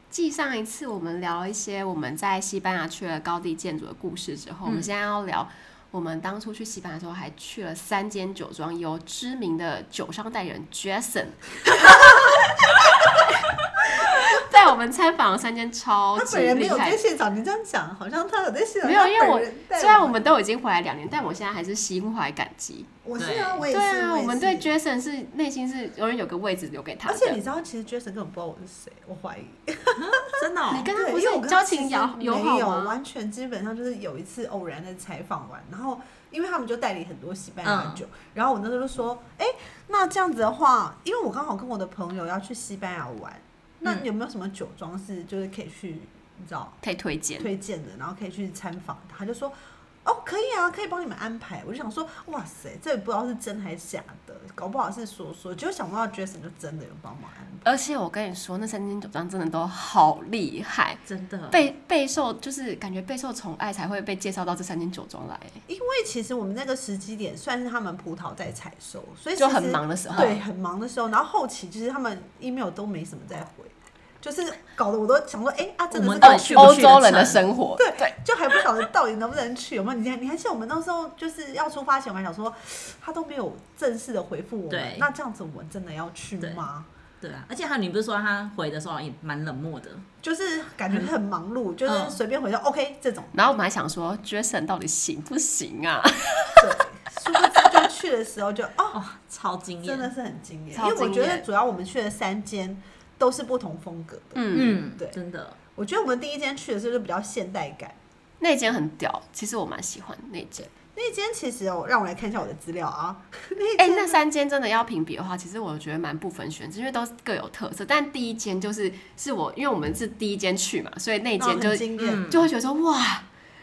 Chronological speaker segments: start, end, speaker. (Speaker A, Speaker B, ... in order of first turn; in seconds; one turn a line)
Speaker A: 0.1-12.3
Speaker A: 13.0-13.3
Speaker A: 14.1-17.0
Speaker B: 16.1-20.1
Speaker A: 18.8-22.9
Speaker B: 23.0-24.7
Speaker C: 23.2-23.6
Speaker A: 23.7-27.4
Speaker B: 27.1-46.8
Speaker C: 30.0-30.9
Speaker A: 30.7-33.0
Speaker C: 37.6-38.0
Speaker A: 46.8-47.5
Speaker B: 47.4-57.7
Speaker A: 57.6-61.0
Speaker C: 61.1-61.6
Speaker A: 61.5-65.6
Speaker B: 65.7-77.0
Speaker A: 69.4-70.3
Speaker C: 70.1-70.4
Speaker C: 75.9-77.4
Speaker A: 76.2-78.1
Speaker B: 77.8-86.9
Speaker C: 84.7-85.0
Speaker C: 87.2-90.0
Speaker B: 90.2-93.4
Speaker C: 91.8-92.2
Speaker A: 93.3-96.8
Speaker B: 96.6-99.0
Speaker A: 97.3-97.7
Speaker C: 98.9-100.1
Speaker B: 99.8-105.2
Speaker A: 100.7-101.4
Speaker A: 104.3-104.8
Speaker C: 104.5-105.5
Speaker B: 105.7-108.0
Speaker A: 108.4-110.7
Speaker B: 110.9-114.2
Speaker A: 113.8-123.2
Speaker B: 121.4-122.2
Speaker C: 122.0-122.5